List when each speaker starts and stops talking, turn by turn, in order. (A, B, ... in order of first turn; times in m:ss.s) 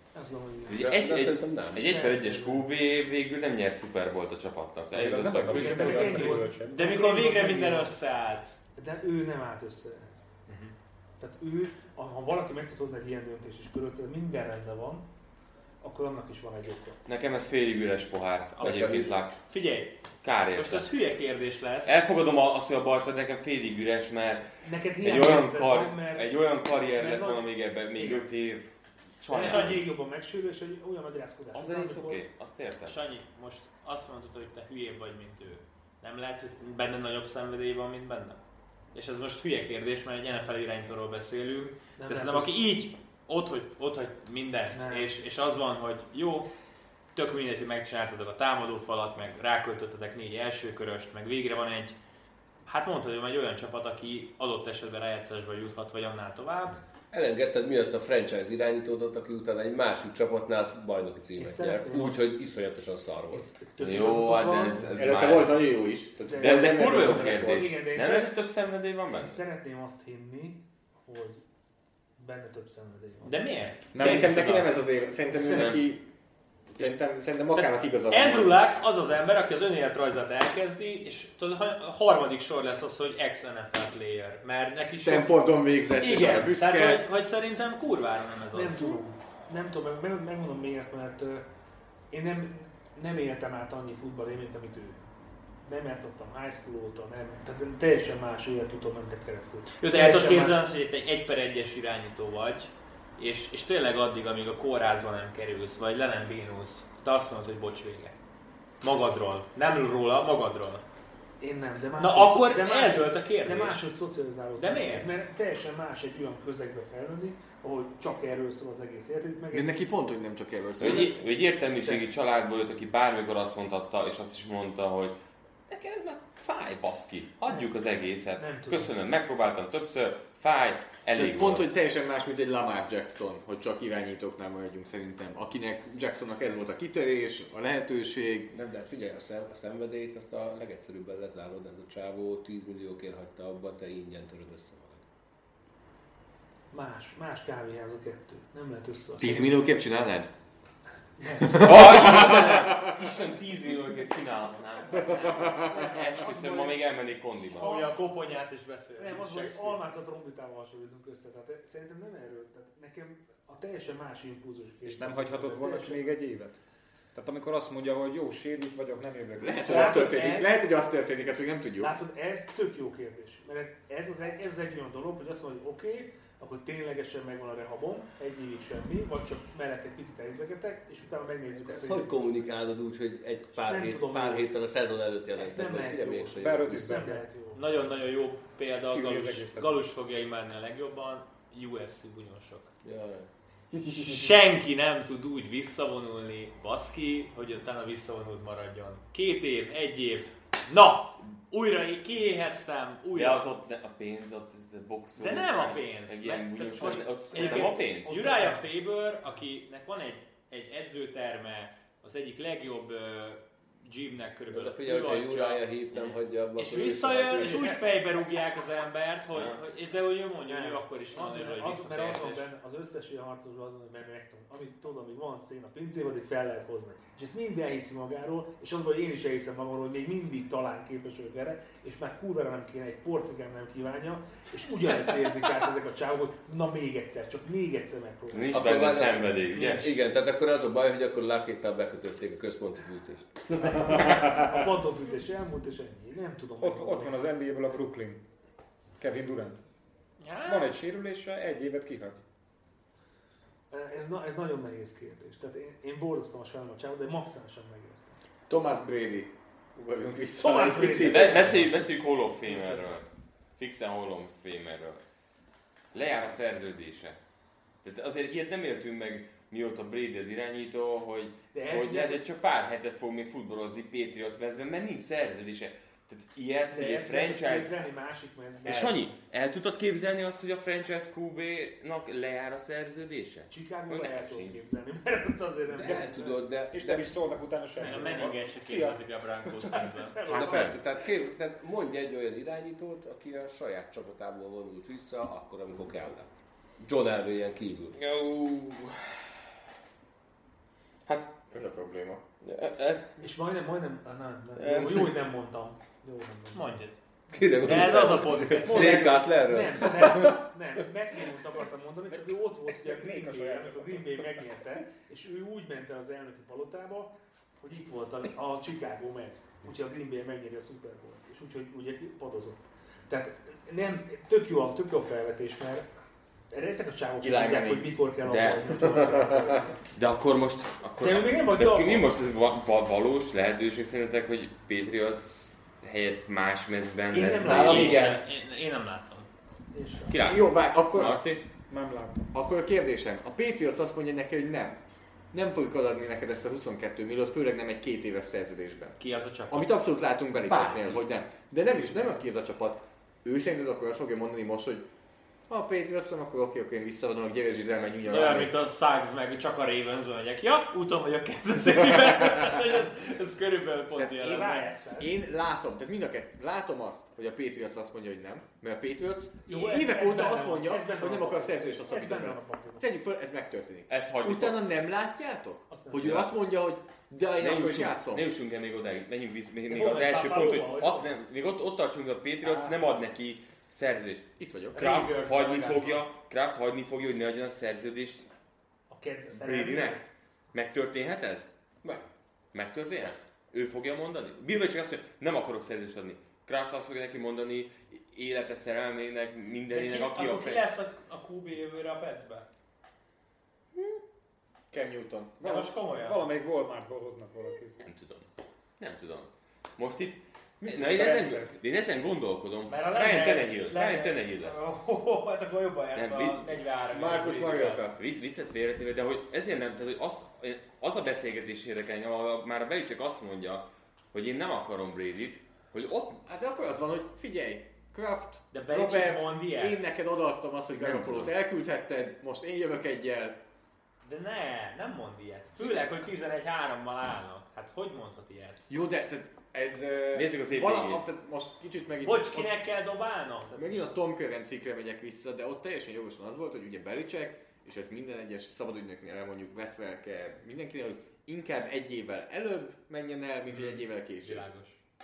0:00.1-0:00.9 A
0:00.7-0:06.3 B
0:00.7-0:01.9 C
0:01.8-0:02.7 A
0:04.9-0:06.9 D
0:05.5-0:07.9 A
0:06.0-0:08.6 E
0:08.8-0:10.3 A
0:11.2-0:15.0 A
0:15.8-0:17.0 A
0:17.0-0:19.4 B
0:18.6-0:20.0 E
0:18.6-0:19.1 C
0:20.2-0:20.9 B
0:20.5-0:22.0 E
0:21.8-0:24.4 B
0:24.6-0:28.3 A
0:25.0-0:29.8 B
0:29.3-0:32.2 A
0:29.3-0:29.8 E
0:31.5-0:33.0 B
0:32.8-0:38.4 E
0:38.9-0:46.5 E
0:42.0-0:42.6 A
0:44.7-0:45.1 A
0:47.1-0:52.0 E
0:52.6-0:56.8 E
0:57.1-1:03.5 C
1:01.4-1:02.2 A
1:03.3-1:04.9 A
1:03.8-1:05.6 B
1:04.9-1:07.7 F
1:06.2-1:08.3 A
1:06.4-1:09.4 B
1:09.2-1:11.4 A
1:12.2-1:13.4 A
1:13.2-1:14.7 E
1:13.9-1:14.4 D
1:13.9-1:16.0 F
1:15.4-1:15.8 B
1:16.7-1:18.6 F
1:17.5-1:25.3 E
1:24.9-1:27.0 F
1:25.9-1:29.0 E
1:28.5-1:31.4 A
1:32.1-1:35.0 A
1:35.6-1:40.6 A
1:39.8-1:48.1 E
1:48.8-1:50.8 E
1:51.4-1:59.9 A
1:52.0-1:53.9 E
1:54.6-1:55.1 E
1:59.5-2:01.2 F
2:00.8-2:05.2 B
2:05.7-2:11.7 B
2:08.3-2:08.9 A
2:11.2-2:18.5 F
2:18.5-2:25.0 C
2:26.7-2:29.6 A
2:29.2-2:30.3 F
2:31.2-2:31.8 A
2:31.4-2:32.9 F
2:31.5-2:37.8 B
2:35.4-2:36.8 A
2:35.4-2:35.7 F
2:37.6-2:39.8 E
2:39.0-2:46.2 A
2:44.8-2:46.6 D
2:47.1-2:50.1 D
2:49.4-2:51.9 F
2:49.6-2:50.6 A
2:51.8-3:02.1 A
3:01.6-3:06.9 C
3:03.6-3:04.5 A
3:05.3-3:07.7 A
3:06.4-3:07.2 D
3:07.5-3:12.7 E
3:08.9-3:09.8 D
3:12.8-3:14.1 C
3:13.8-3:23.4 E
3:23.1-3:28.2 B
3:25.2-3:42.5 E
3:27.2-3:28.6 A
3:34.5-3:37.7 C
3:37.3-3:37.8 A
3:39.3-3:39.6 B
3:40.4-3:58.6 A
3:58.3-3:59.9 B
3:58.5-4:04.2 C
3:59.5-3:59.8 E
4:03.6-4:07.3 A
4:06.6-4:08.2 D
4:09.0-4:09.6 D
4:10.2-4:10.8 E
4:10.4-4:12.2 D
4:13.7-4:18.2 A
4:18.5-4:21.7 F
4:20.4-4:21.8 A
4:21.0-4:23.0 B
4:23.6-4:25.0 B
4:25.9-4:27.2 B
4:27.8-4:37.8 B
4:31.5-4:32.2 A
4:36.7-4:39.0 A
4:38.6-4:44.6 B
4:43.5-4:46.4 A
4:45.7-4:47.1 C
4:46.7-4:49.0 D
4:47.8-4:50.2 E
4:47.8-4:48.3 A
4:48.0-4:48.3 C
4:50.0-4:50.6 A
4:50.2-4:58.0 C
4:50.3-4:50.8 B
4:58.0-4:59.2 B
5:01.5-5:02.2 F
5:02.4-5:03.2 B
5:03.2-5:06.7 A
5:04.6-5:05.1 B
5:06.5-5:07.0 E
5:07.3-5:10.4 C
5:07.6-5:09.2 E
5:08.7-5:25.9 A
5:12.1-5:14.2 D
5:26.5-5:29.8 A
5:27.2-5:28.0 F
5:28.2-5:29.0 B
5:28.9-5:29.4 F
5:29.9-5:38.2 B
5:31.0-5:32.1 A
5:37.1-5:37.9 A
5:37.4-5:38.2 F
5:37.5-5:39.3 E
5:39.7-5:40.2 A
5:40.1-5:41.4 B
5:40.2-5:41.2 F
5:41.7-5:42.3 D
5:42.3-5:44.8 F
5:45.3-5:54.8 F
5:49.0-5:49.8 E
5:50.5-5:50.9 E
5:55.5-5:58.5 F
5:58.0-6:04.7 E
6:04.0-6:18.3 F
6:04.2-6:05.1 A
6:09.4-6:12.8 A
6:13.9-6:14.6 B
6:15.7-6:16.2 A
6:16.0-6:16.3 B
6:17.4-6:28.3 B
6:19.7-6:21.1 A
6:22.4-6:22.7 A
6:24.4-6:24.8 F
6:24.7-6:26.0 E
6:28.9-6:30.0 A
6:29.3-6:31.5 B
6:32.5-6:40.7 B
6:39.7-6:42.4 E
6:44.7-6:45.6 F
6:45.4-6:46.2 E
6:46.0-6:47.8 D
6:47.8-6:48.3 B
6:48.8-6:54.6 B
6:50.6-6:51.5 D
6:52.7-6:57.9 E
6:55.9-6:56.6 B
6:56.9-6:58.0 F
6:58.0-7:06.2 B
7:06.2-7:13.4 F
7:08.5-7:09.9 E
7:10.8-7:11.3 B
7:14.0-7:18.7 E
7:15.6-7:15.9 F
7:18.7-7:22.6 F
7:20.1-7:21.0 B
7:22.0-7:23.9 E
7:23.5-7:34.5 F
7:33.5-7:34.8 E